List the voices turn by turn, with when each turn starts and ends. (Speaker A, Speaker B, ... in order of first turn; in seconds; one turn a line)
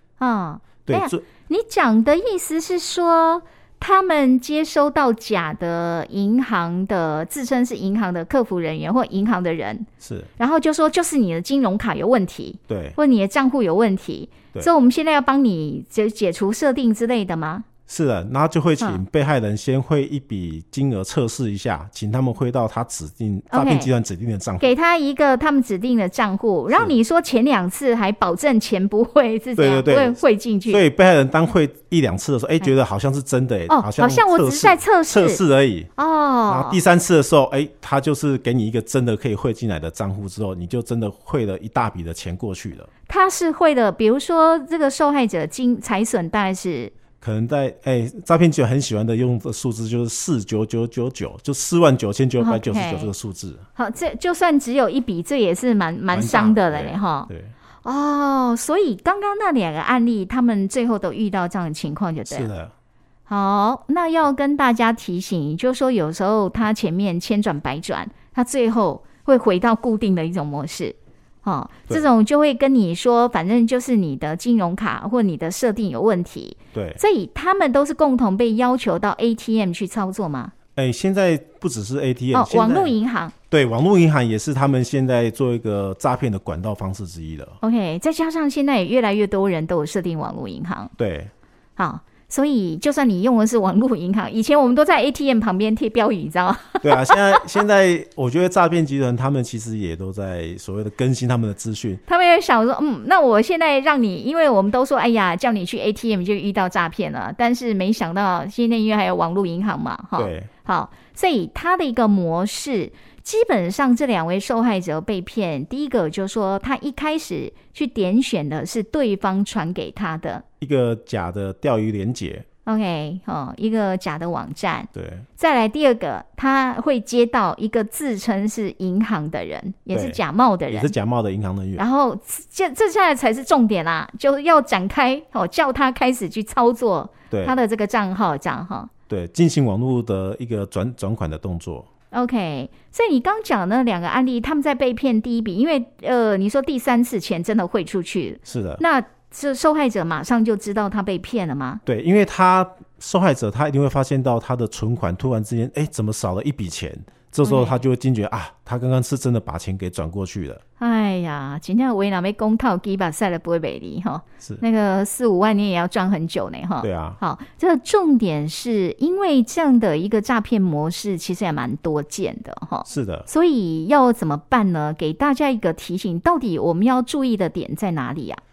Speaker A: 0.2-9.9
Speaker B: 0.8-1.2
Speaker B: 10.0-10.3
Speaker A: 10.4-17.7
Speaker B: 12.7-13.0
Speaker B: 17.9-24.7
Speaker A: 23.5-23.9
Speaker A: 24.6-30.8
Speaker B: 29.6-30.2
Speaker B: 30.7-35.9
Speaker A: 33.7-35.4
Speaker A: 36.0-36.8
Speaker B: 36.5-42.9
Speaker A: 43.1-46.9
Speaker B: 47.2-53.6
Speaker A: 52.4-53.1
Speaker A: 53.8-57.3
Speaker B: 56.1-57.5
Speaker A: 57.8-62.5
Speaker B: 62.3-62.7
Speaker A: 63.3-80.5
Speaker B: 76.7-77.0
Speaker B: 80.8-82.9
Speaker A: 82.3-83.3
Speaker B: 83.5-87.6
Speaker A: 87.6-90.9
Speaker B: 91.0-91.3
Speaker A: 91.8-97.5
Speaker B: 96.8-102.0
Speaker A: 102.1-120.4
Speaker B: 110.2-110.5
Speaker B: 120.6-122.4
Speaker A: 122.7-130.9
Speaker B: 124.9-125.2
Speaker B: 129.9-131.8
Speaker A: 131.8-138.9
Speaker B: 139.1-141.9
Speaker A: 142.1-151.8
Speaker B: 148.4-148.8
Speaker B: 151.8-160.6
Speaker A: 157.4-157.8
Speaker A: 160.8-178.4
Speaker B: 166.8-167.2
Speaker B: 172.8-173.3